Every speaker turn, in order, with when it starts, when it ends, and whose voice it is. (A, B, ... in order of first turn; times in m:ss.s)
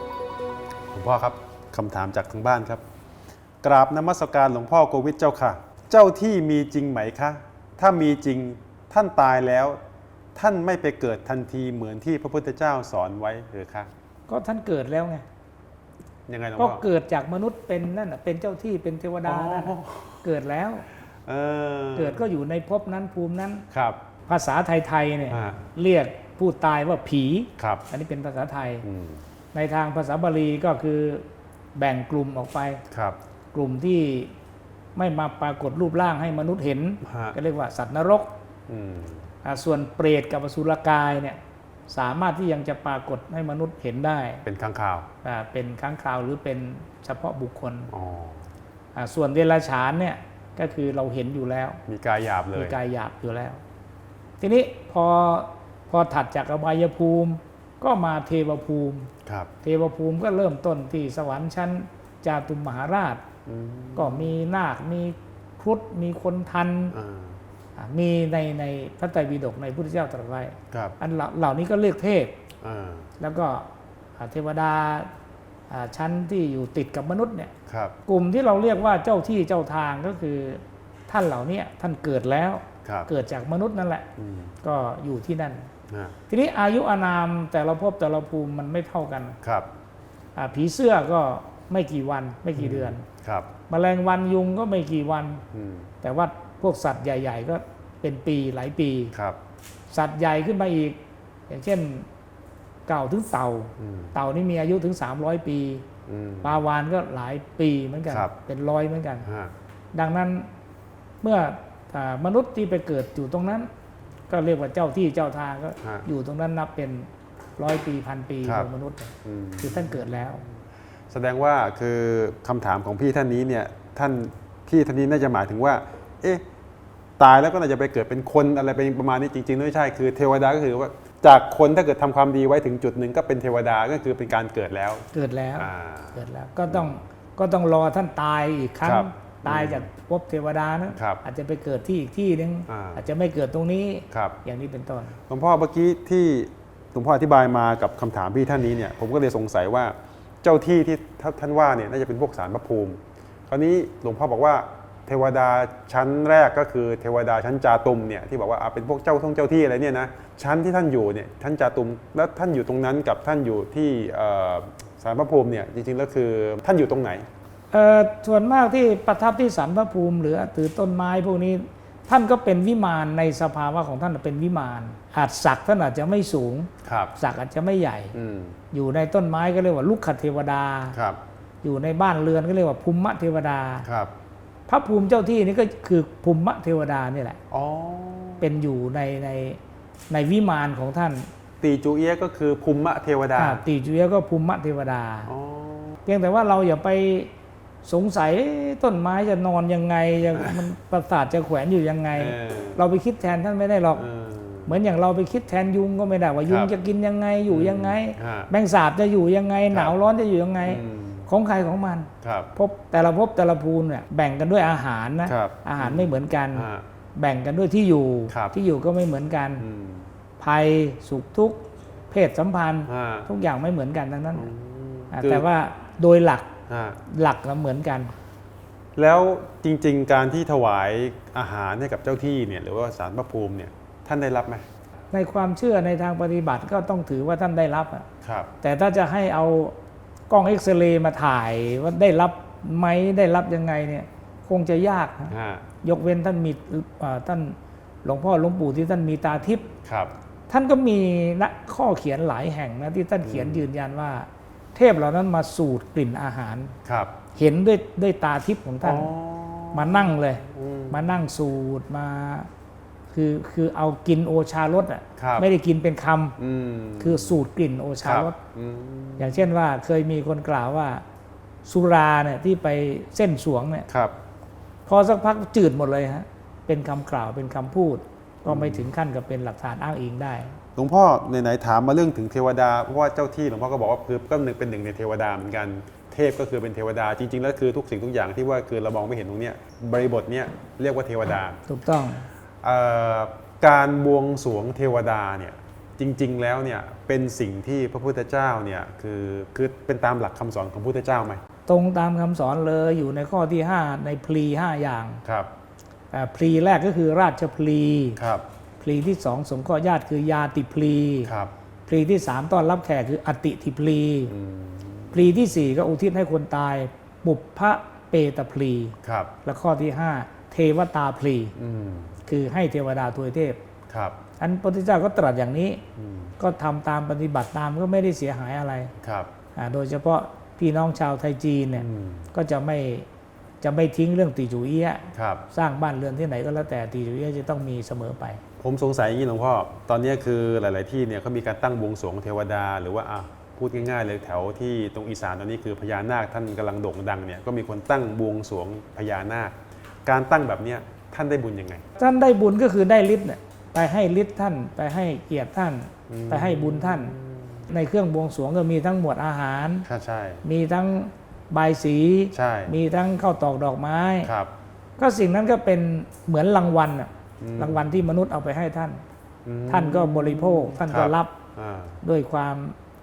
0:00.9-0:02.8 A
0:03.6-0:09.8 A
0:10.4-0:13.9 A
0:14.3-0:15.2 B
0:16.3-0:16.8 A
0:16.6-0:20.9 B
0:19.2-0:20.3 A
0:21.3-0:22.2 A
0:22.0-0:23.7 B
0:23.7-0:24.0 A
0:24.3-0:28.9 B
0:25.3-0:25.6 A
0:27.6-0:27.8 A
0:28.8-0:29.2 A
0:29.5-0:32.8 B
0:32.9-0:33.2 A
0:33.5-0:34.3 B
0:35.0-0:38.3 B
0:37.0-0:37.4 A
0:38.7-0:39.3 A
0:39.4-0:44.4 B
0:44.4-0:45.1 A
0:45.2-0:47.9 B
0:47.9-0:48.5 A
0:48.9-0:51.8 B
0:51.9-0:52.8 A
0:52.6-0:53.6 B
0:54.4-0:59.1 B
0:59.2-0:59.5 A
0:59.6-1:03.2 B
1:03.5-1:04.4 A
1:04.0-1:07.0 B
1:06.9-1:07.4 A
1:07.8-1:12.4 B
1:10.7-1:11.0 A
1:12.6-1:13.1 A
1:13.2-1:15.1 B
1:15.7-1:17.5 B
1:17.7-1:18.0 A
1:18.1-1:24.1 B
1:22.8-1:23.1 A
1:24.2-1:24.5 A
1:24.6-1:25.7 B
1:25.9-1:26.2 A
1:26.3-1:29.4 B
1:29.4-1:29.7 A
1:30.4-1:33.1 B
1:32.6-1:33.5 A
1:33.7-1:35.4 B
1:35.5-1:35.9 A
1:36.0-1:39.1 B
1:39.1-1:39.4 A
1:39.9-1:42.1 B
1:42.9-1:45.9 B
1:43.8-1:44.2 A
1:46.1-1:46.6 A
1:46.4-1:49.3 B
1:48.1-1:48.4 A
1:49.2-1:49.5 A
1:49.9-1:50.5 B
1:51.2-1:53.7 B
1:54.3-2:00.4 B
1:55.8-1:56.1 A
1:58.4-1:58.7 A
1:59.2-2:00.1 A
2:01.1-2:06.4 A
2:07.2-2:15.1 A
2:15.1-2:25.2 B
2:15.6-2:17.0 A
2:18.8-2:19.9 A
2:21.0-2:21.2 A
2:22.7-2:23.0 A
2:24.1-2:24.4 A
2:25.3-2:47.3 A
2:47.7-2:58.2 B
2:56.8-2:57.1 A
2:58.1-2:58.6 A
2:58.7-3:01.0 B
3:00.9-3:01.2 A
3:01.6-3:03.9 B
3:03.8-3:04.1 A
3:04.7-3:07.4 B
3:07.5-3:08.5 A
3:08.4-3:11.3 B
3:11.6-3:13.6 A
3:13.4-3:15.3 B
3:15.3-3:16.0 A
3:16.0-3:17.3 B
3:17.8-3:24.1 B
3:20.3-3:20.7 A
3:22.2-3:22.8 A
3:23.9-3:24.8 A
3:24.7-3:39.7 B
3:26.4-3:26.7 A
3:27.5-3:28.5 A
3:29.7-3:30.0 A
3:30.6-3:31.3 A
3:32.2-3:32.5 A
3:35.3-3:36.8 A
3:38.3-3:38.6 A
3:39.6-3:40.1 A
3:40.4-3:44.5 B
3:42.9-3:43.3 A
3:44.3-3:45.5 A
3:45.1-3:46.5 B
3:46.7-3:47.0 A
3:47.1-3:48.1 B
3:49.0-3:54.7 A
3:55.1-3:58.1 B
3:58.2-3:58.5 A
3:58.6-3:59.8 B
4:00.3-4:09.7 B
4:05.3-4:05.7 A
4:09.8-4:10.1 A
4:10.5-4:16.7 B
4:13.2-4:13.7 A
4:16.8-4:17.2 A
4:17.4-4:19.1 B
4:18.8-4:21.2 A
4:19.7-4:22.5 B
4:23.1-4:26.4 B
4:25.2-4:25.5 A
4:26.4-4:27.5 A
4:27.0-4:28.4 B
4:28.0-4:29.5 A
4:29.2-4:31.0 B
4:31.6-4:33.9 B
4:33.9-4:34.2 A
4:34.9-4:40.6 B
4:38.5-4:38.9 A
4:40.8-4:51.6 A
4:51.7-4:52.3 B
4:52.6-5:01.4 A
5:01.7-5:05.2 B
5:05.2-5:05.5 A
5:06.1-5:08.2 B
5:08.2-5:08.4 A
5:08.8-5:11.3 B
5:11.2-5:11.5 A
5:11.9-5:14.3 B
5:14.3-5:15.4 A
5:15.1-5:21.5 B
5:19.0-5:19.3 A
5:21.6-5:22.2 A
5:22.3-5:23.6 B
5:23.9-5:24.2 A
5:24.4-5:25.8 B
5:26.0-5:26.4 A
5:26.4-5:28.9 B
5:29.0-5:29.3 A
5:29.6-5:33.1 B
5:31.8-5:32.3 A
5:33.6-5:38.4 B
5:35.1-5:35.5 A
5:38.6-5:49.5 A
5:50.1-5:51.8 A
5:52.0-5:57.1 B
5:56.1-5:57.7 A
5:57.7-5:59.9 B
5:59.9-6:00.4 A
6:00.4-6:04.3 B
6:02.3-6:02.8 A
6:04.2-6:04.5 A
6:05.0-6:09.0 B
6:07.4-6:08.0 A
6:09.4-6:12.0 A
6:09.7-6:11.4 B
6:12.0-6:12.8 B